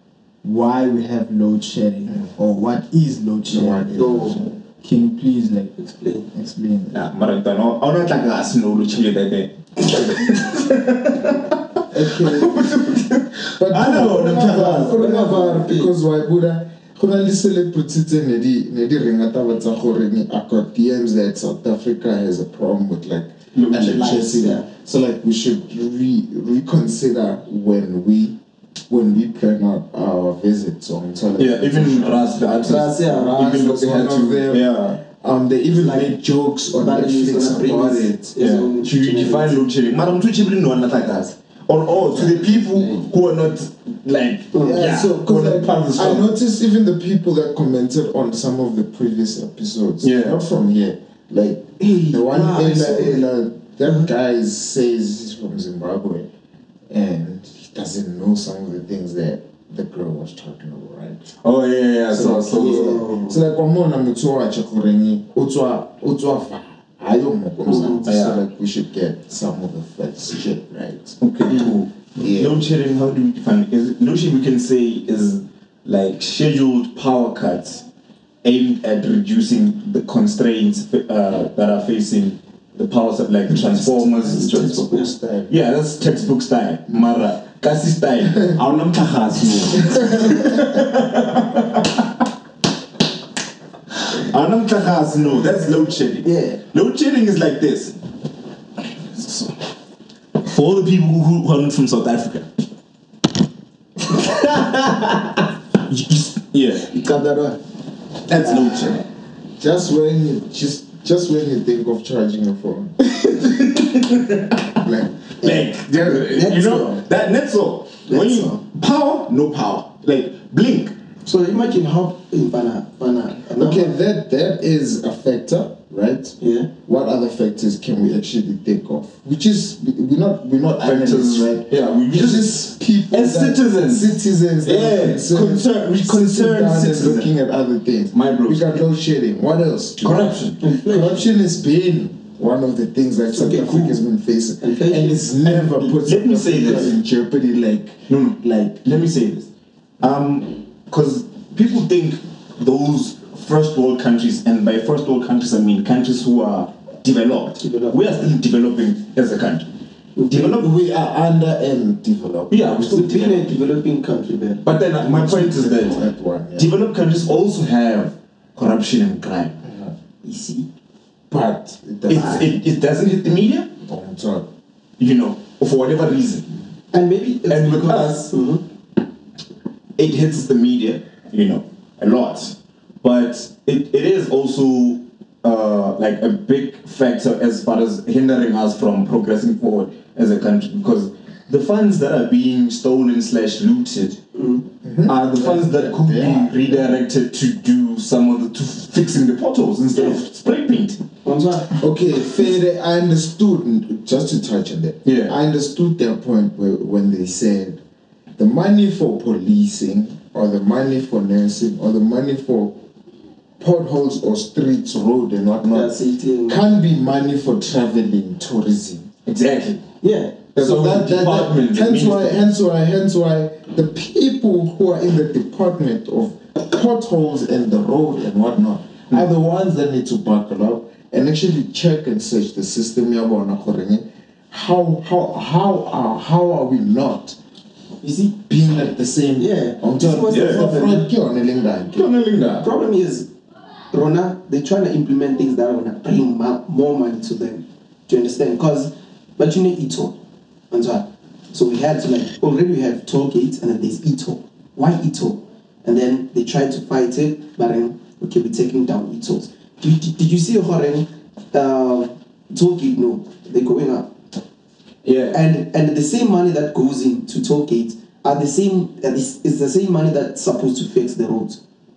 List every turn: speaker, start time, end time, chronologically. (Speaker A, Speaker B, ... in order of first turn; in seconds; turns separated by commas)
Speaker A: 0.4-5.7, Speaker B: 3.5-4.5, Speaker C: 5.8-6.3, Speaker B: 6.3-7.0, Speaker D: 6.9-15.1, Speaker B: 11.9-12.6, Speaker B: 13.6-28.4, Speaker C: 14.3-15.9, Speaker D: 23.5-24.2, Speaker C: 23.8-24.6, Speaker B: 28.9-38.3, Speaker D: 31.4-35.0, Speaker C: 32.6-33.6, Speaker C: 35.8-36.1, Speaker C: 36.7-39.6, Speaker D: 38.4-46.3, Speaker B: 41.9-43.1, Speaker C: 44.5-44.9, Speaker B: 44.6-56.3, Speaker D: 50.0-50.4, Speaker C: 51.8-53.1, Speaker D: 52.4-53.1, Speaker B: 56.9-61.3, Speaker D: 61.4-63.0, Speaker B: 62.1-71.2, Speaker C: 62.5-63.4, Speaker C: 67.7-68.1, Speaker D: 68.0-68.4, Speaker D: 71.2-77.8, Speaker B: 72.2-72.7, Speaker D: 78.4-84.9, Speaker B: 83.5-85.5, Speaker C: 84.3-85.1, Speaker D: 85.5-92.2, Speaker B: 89.8-90.6, Speaker D: 94.1-97.9, Speaker C: 96.2-96.6, Speaker D: 99.1-99.5, Speaker D: 100.4-102.5, Speaker C: 104.5-104.9, Speaker C: 105.9-106.2, Speaker D: 106.5-106.9, Speaker C: 106.9-107.6, Speaker D: 108.3-109.0, Speaker C: 108.4-109.0, Speaker B: 109.6-112.9, Speaker D: 113.1-114.7, Speaker B: 114.8-116.3, Speaker D: 115.4-120.9, Speaker C: 116.2-117.0, Speaker C: 118.1-118.6, Speaker C: 121.2-123.9, Speaker B: 123.5-148.0, Speaker C: 126.4-126.7, Speaker D: 130.8-134.1, Speaker D: 134.6-137.3, Speaker D: 138.1-138.8, Speaker D: 140.0-140.6, Speaker C: 140.6-141.2, Speaker C: 143.3-144.0, Speaker C: 144.6-145.2, Speaker D: 145.4-146.9, Speaker D: 148.1-149.5, Speaker D: 150.0-159.7, Speaker C: 157.6-158.3, Speaker C: 160.2-160.6, Speaker D: 160.3-160.7, Speaker B: 160.4-162.8, Speaker D: 162.5-163.6, Speaker C: 162.9-164.7, Speaker D: 164.6-166.0, Speaker B: 165.0-166.7, Speaker D: 166.6-169.5, Speaker B: 169.6-169.9, Speaker C: 170.2-170.7, Speaker B: 171.3-172.6, Speaker D: 172.1-173.7, Speaker B: 173.8-174.5, Speaker D: 175.0-176.5, Speaker C: 176.9-178.6, Speaker D: 177.5-178.3, Speaker D: 180.0-194.2, Speaker C: 194.3-194.7, Speaker B: 194.8-196.9, Speaker D: 195.1-201.0, Speaker C: 199.9-200.2, Speaker C: 201.2-201.8, Speaker B: 201.8-207.8, Speaker D: 205.0-205.3, Speaker B: 208.4-212.8, Speaker B: 213.6-215.9, Speaker C: 215.7-216.6, Speaker B: 216.5-219.1, Speaker D: 219.2-219.8, Speaker C: 220.0-220.4, Speaker D: 220.5-222.5, Speaker B: 220.6-237.4, Speaker C: 238.0-238.3, Speaker B: 238.4-242.1, Speaker C: 239.4-241.1, Speaker D: 240.2-241.0, Speaker D: 242.0-242.7, Speaker C: 242.6-243.3, Speaker C: 243.9-250.2, Speaker C: 250.7-264.1, Speaker D: 265.0-265.4, Speaker C: 265.3-271.6